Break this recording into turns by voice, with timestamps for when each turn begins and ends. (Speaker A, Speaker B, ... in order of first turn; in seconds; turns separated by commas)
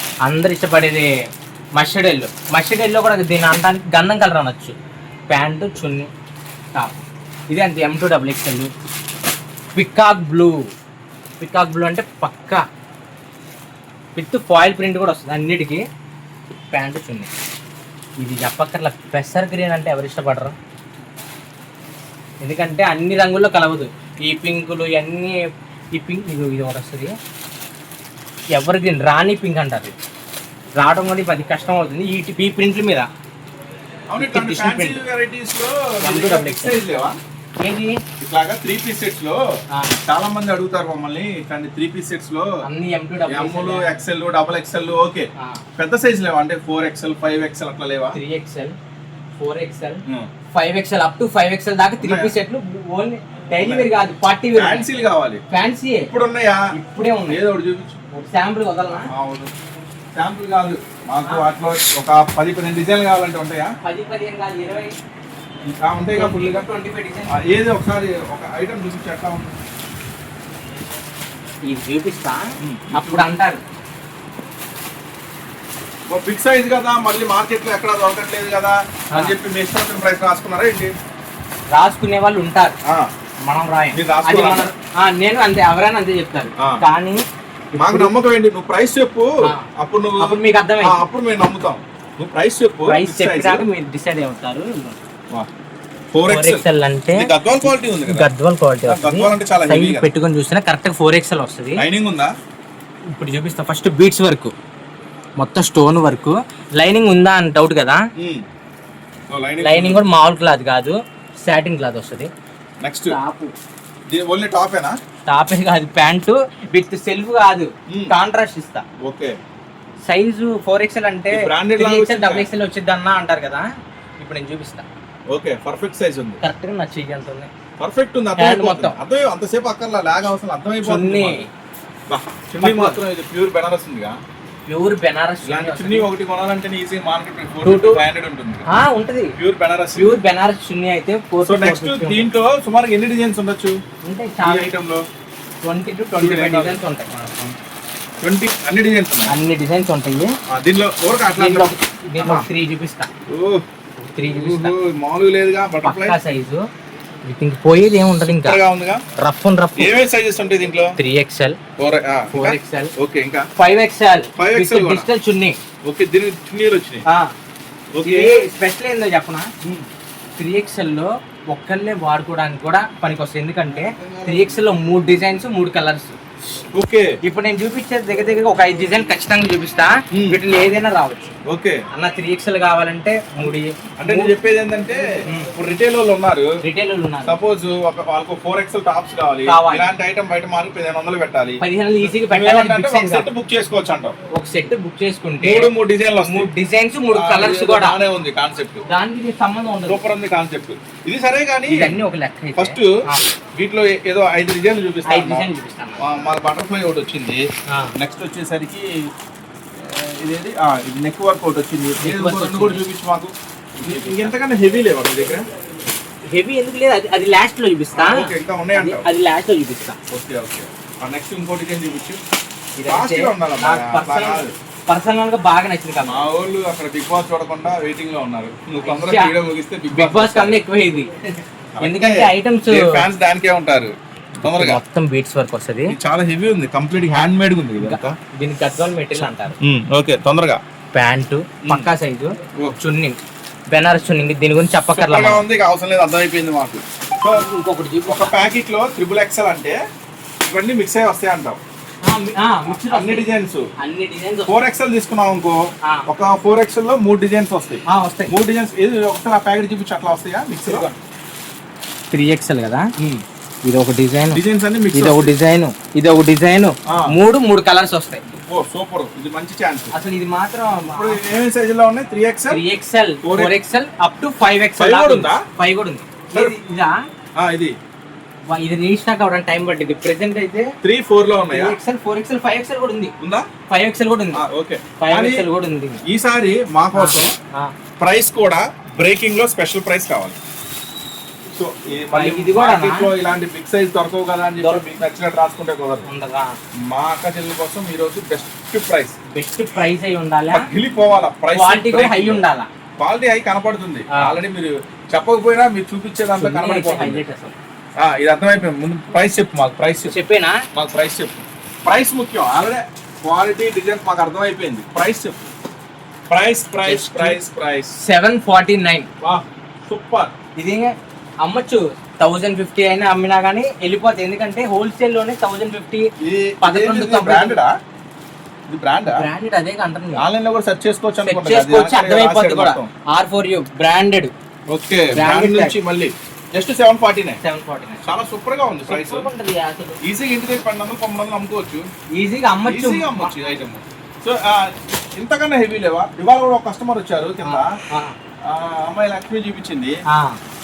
Speaker A: 0.2-1.1, Speaker A: 1.8-4.8, Speaker A: 5.3-6.1, Speaker A: 6.7-8.7, Speaker A: 9.8-10.7, Speaker A: 11.4-12.6, Speaker A: 14.2-15.8, Speaker A: 16.7-17.3, Speaker A: 18.2-20.6, Speaker A: 22.4-27.1, Speaker A: 28.5-29.9, Speaker A: 30.8-33.1, Speaker B: 34.1-37.2, Speaker A: 34.2-35.0, Speaker A: 36.0-36.8, Speaker A: 37.6-38.0, Speaker B: 38.2-39.4, Speaker A: 39.7-40.0, Speaker B: 40.0-42.6, Speaker A: 42.6-43.9, Speaker B: 43.3-48.2, Speaker A: 45.4-45.6, Speaker A: 48.1-48.8, Speaker A: 49.4-50.0, Speaker A: 50.5-54.9, Speaker B: 52.0-52.3, Speaker B: 53.6-53.9, Speaker B: 54.5-55.4, Speaker A: 55.5-56.1, Speaker B: 56.1-56.7, Speaker A: 56.7-57.4, Speaker B: 57.3-58.0, Speaker A: 58.1-59.1, Speaker B: 59.1-59.5, Speaker B: 60.1-63.8, Speaker A: 63.8-65.0, Speaker B: 65.7-66.7, Speaker A: 66.1-67.4, Speaker B: 67.3-69.5, Speaker A: 71.6-73.6, Speaker B: 72.6-73.3, Speaker B: 76.1-80.9, Speaker A: 79.1-79.4, Speaker A: 81.7-82.8, Speaker B: 82.8-83.1, Speaker A: 83.4-87.2, Speaker B: 83.9-84.7, Speaker A: 87.8-88.1, Speaker B: 87.8-93.7, Speaker A: 90.2-91.0, Speaker A: 92.9-95.0, Speaker B: 96.1-96.6, Speaker A: 96.3-101.8, Speaker B: 97.1-98.3, Speaker B: 98.9-100.1, Speaker B: 101.8-102.3, Speaker A: 103.1-104.5, Speaker A: 105.4-108.0, Speaker B: 108.2-108.4, Speaker B: 109.3-110.0, Speaker A: 109.6-112.3, Speaker B: 112.8-113.2, Speaker A: 113.1-113.5, Speaker B: 114.1-115.0, Speaker A: 115.3-118.8, Speaker B: 119.0-119.4, Speaker A: 120.0-123.7, Speaker B: 121.3-122.5, Speaker A: 124.2-124.9, Speaker B: 125.3-126.4, Speaker A: 126.4-127.5, Speaker B: 127.8-131.5, Speaker A: 128.4-129.0, Speaker A: 130.8-131.5, Speaker B: 132.1-134.2, Speaker A: 132.6-133.0, Speaker A: 134.7-136.1, Speaker B: 135.4-138.7, Speaker A: 137.6-138.0, Speaker A: 138.7-139.4, Speaker B: 139.4-140.2, Speaker A: 139.9-142.3, Speaker B: 141.4-143.8, Speaker A: 144.0-144.7, Speaker B: 144.4-145.1, Speaker A: 145.6-147.5, Speaker B: 146.1-146.8, Speaker B: 148.2-149.3, Speaker A: 149.3-150.3, Speaker B: 150.5-152.5, Speaker A: 151.3-153.1, Speaker B: 153.3-153.6, Speaker A: 154.0-154.7, Speaker B: 154.3-156.2, Speaker A: 155.8-156.7, Speaker A: 157.2-158.6, Speaker B: 158.2-159.0, Speaker A: 159.2-159.9, Speaker B: 159.8-160.9, Speaker A: 161.0-161.6, Speaker B: 161.8-163.5, Speaker A: 162.3-162.9, Speaker A: 163.6-165.6, Speaker B: 164.4-165.1, Speaker B: 165.8-167.1, Speaker A: 167.1-167.3, Speaker B: 167.9-168.4, Speaker A: 168.0-169.5, Speaker A: 170.4-176.2, Speaker B: 173.7-174.6, Speaker B: 176.7-177.2, Speaker A: 177.2-181.3, Speaker B: 180.1-180.4, Speaker B: 181.5-181.8, Speaker A: 181.9-184.3, Speaker B: 183.4-186.6, Speaker A: 186.6-187.4, Speaker B: 187.2-194.1, Speaker A: 189.5-189.9, Speaker A: 191.6-193.3, Speaker A: 194.3-195.7, Speaker B: 195.4-196.5, Speaker A: 196.2-198.0, Speaker B: 197.1-198.8, Speaker A: 198.9-200.1, Speaker B: 199.9-201.9, Speaker A: 201.7-203.2, Speaker B: 202.6-203.0, Speaker B: 203.6-205.5, Speaker A: 205.1-206.0, Speaker B: 206.0-207.4, Speaker A: 207.7-207.9, Speaker B: 208.0-209.1, Speaker B: 209.8-215.4, Speaker A: 212.0-212.8, Speaker A: 213.8-214.3, Speaker A: 216.3-220.0, Speaker B: 217.9-219.1, Speaker B: 220.1-222.2, Speaker A: 222.8-226.3, Speaker B: 222.9-224.6, Speaker B: 226.0-230.6, Speaker A: 228.8-229.3, Speaker A: 229.9-231.1, Speaker B: 231.8-233.9, Speaker A: 231.8-233.0, Speaker B: 234.4-234.8, Speaker A: 234.4-235.9, Speaker B: 235.9-238.2, Speaker A: 237.8-239.6, Speaker B: 239.6-240.6, Speaker A: 240.9-243.2, Speaker A: 243.7-245.4, Speaker B: 244.9-247.4, Speaker A: 247.3-248.4, Speaker B: 248.1-249.8, Speaker B: 250.4-251.6, Speaker A: 252.0-253.3, Speaker B: 252.7-253.7, Speaker A: 253.8-254.6, Speaker B: 254.5-260.9, Speaker A: 257.9-258.3, Speaker A: 260.6-261.0, Speaker A: 262.1-262.9, Speaker B: 263.0-263.2, Speaker A: 263.6-264.4, Speaker B: 264.3-265.4, Speaker A: 264.9-268.2, Speaker B: 266.9-267.1, Speaker B: 268.3-269.9, Speaker A: 269.9-271.2, Speaker B: 270.8-272.6, Speaker A: 272.5-276.9, Speaker B: 273.2-273.6, Speaker B: 274.8-275.4, Speaker B: 277.4-277.8, Speaker A: 278.5-280.7, Speaker B: 280.8-281.8, Speaker A: 281.5-283.1, Speaker B: 283.2-283.5, Speaker A: 283.7-284.4, Speaker B: 284.3-285.4, Speaker A: 285.0-286.0, Speaker B: 286.0-287.4, Speaker A: 286.9-287.7, Speaker B: 288.0-290.4, Speaker B: 291.5-296.1, Speaker A: 292.1-293.1, Speaker A: 294.6-294.9, Speaker A: 296.1-296.6, Speaker B: 296.9-299.1, Speaker A: 299.3-300.7, Speaker B: 300.5-302.4, Speaker A: 301.5-302.7, Speaker B: 303.0-307.2, Speaker A: 304.1-304.4, Speaker A: 306.4-307.6, Speaker B: 308.0-310.1, Speaker A: 310.1-310.6, Speaker B: 310.7-315.4, Speaker B: 316.3-317.9, Speaker A: 316.8-317.4, Speaker A: 318.0-319.1, Speaker B: 319.2-320.3, Speaker A: 320.6-326.1, Speaker B: 326.2-327.8, Speaker A: 326.6-327.6, Speaker B: 328.7-329.2, Speaker A: 329.1-330.2, Speaker B: 330.1-332.9, Speaker A: 331.2-334.3, Speaker B: 334.7-337.4, Speaker A: 335.1-335.8, Speaker A: 337.4-338.0, Speaker B: 338.0-339.3, Speaker A: 338.9-340.0, Speaker B: 340.0-341.9, Speaker A: 342.1-343.4, Speaker B: 342.7-347.8, Speaker A: 347.4-348.1, Speaker B: 348.5-350.0, Speaker A: 350.1-350.4